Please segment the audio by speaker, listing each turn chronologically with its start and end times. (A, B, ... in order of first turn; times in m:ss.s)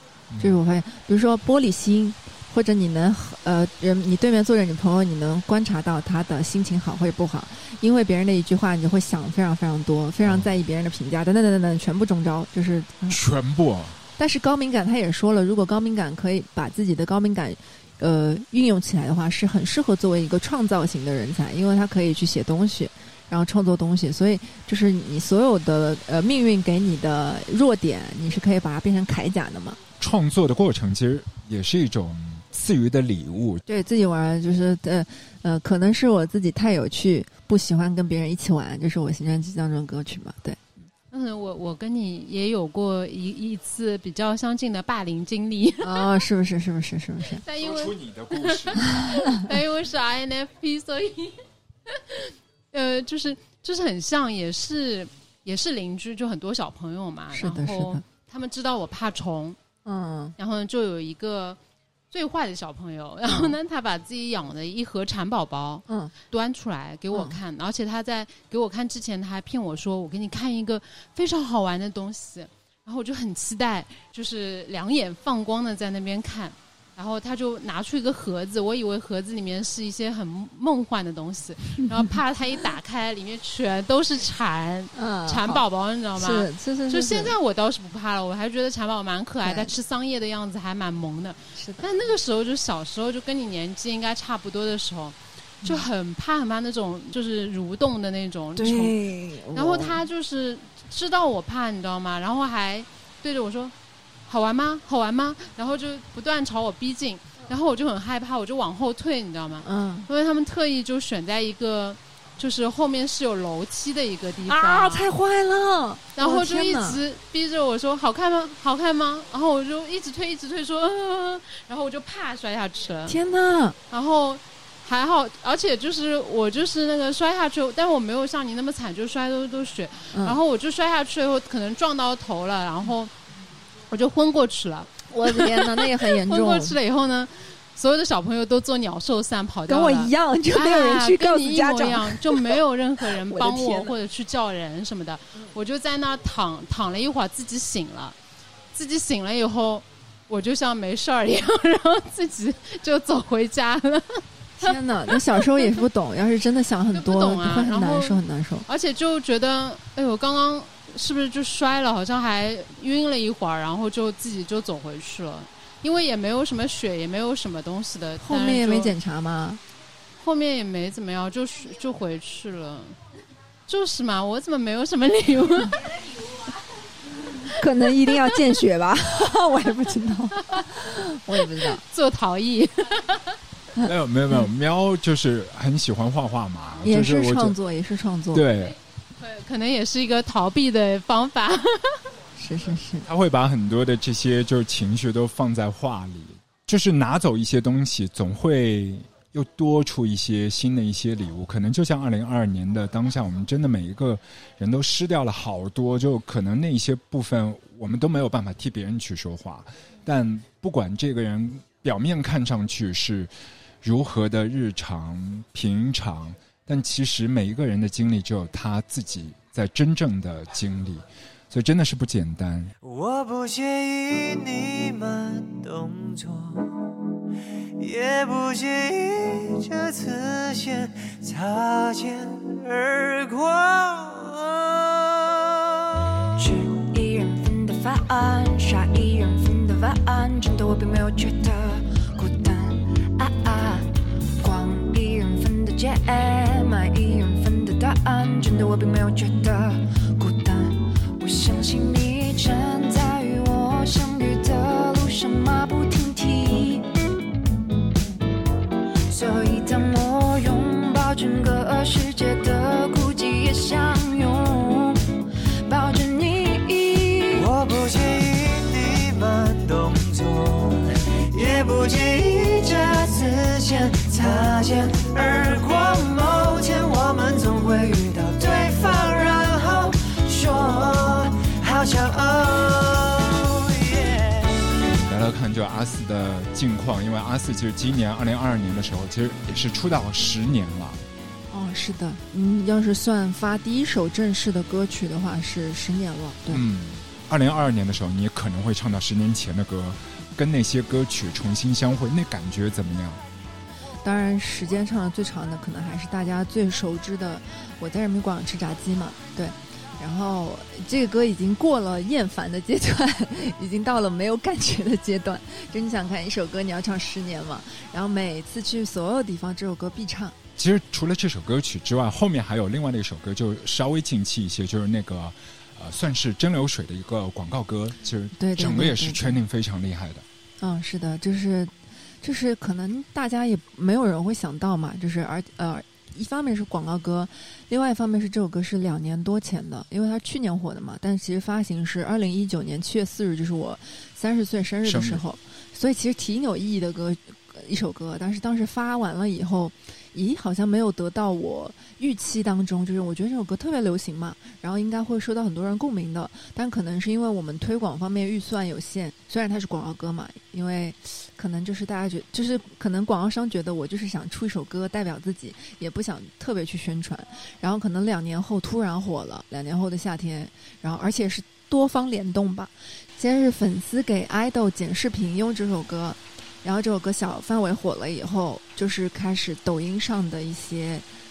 0:00.3-0:00.6 A
0:00.4-0:13.2 B
0:10.2-0:10.5 A
0:13.1-0:14.0 A
0:14.2-0:29.8 B
0:30.0-0:33.6 A
0:33.7-0:40.6 B
0:41.1-0:46.2 C
0:45.8-0:47.4 B
0:47.4-0:59.6 C
0:47.5-0:48.8 A
0:48.9-0:49.5 B
0:57.3-0:58.0 B
0:59.8-1:00.4 B
1:00.4-1:01.6 C
1:02.1-1:39.0 C
1:03.3-1:03.6 B
1:05.9-1:06.1 B
1:07.1-1:07.4 B
1:21.8-1:22.1 B
1:25.0-1:25.6 B
1:26.2-1:27.4 B
1:29.4-1:29.7 B
1:31.6-1:31.9 B
1:38.6-1:40.0 B
1:39.5-1:43.7 C
1:44.3-1:55.1 C
1:49.6-1:50.1 B
1:54.5-1:57.0 B
1:56.2-2:03.2 C
2:03.1-2:03.8 B
2:03.9-2:13.1 C
2:10.1-2:10.4 B
2:13.9-2:28.2 C
2:15.1-2:16.8 B
2:19.7-2:22.6 B
2:23.2-2:24.0 B
2:28.8-2:35.8 C
2:34.6-2:38.7 B
2:36.9-2:49.0 C
2:48.2-2:49.6 B
2:50.2-2:53.0 C
2:53.7-2:56.3 C
2:57.2-2:58.4 C
2:57.5-3:01.8 B
3:00.4-3:00.7 C
3:01.3-3:03.4 C
3:03.8-3:07.6 A
3:06.8-3:08.5 B
3:08.3-3:08.8 A
3:09.2-3:12.1 C
3:12.4-3:13.1 B
3:13.0-3:33.3 A
3:33.8-3:42.7 A
3:42.8-3:46.8 D
3:47.8-3:56.0 D
3:56.4-4:16.9 E
4:19.1-4:25.1 E
4:25.6-4:27.6 E
4:27.4-4:44.6 D
4:45.0-4:51.0 A
4:51.5-4:56.6 B
4:56.5-5:03.2 A
5:04.0-5:20.4 B
5:20.6-5:30.2 A
5:28.4-5:29.4 B
5:30.6-6:21.0 B
5:44.8-5:45.2 A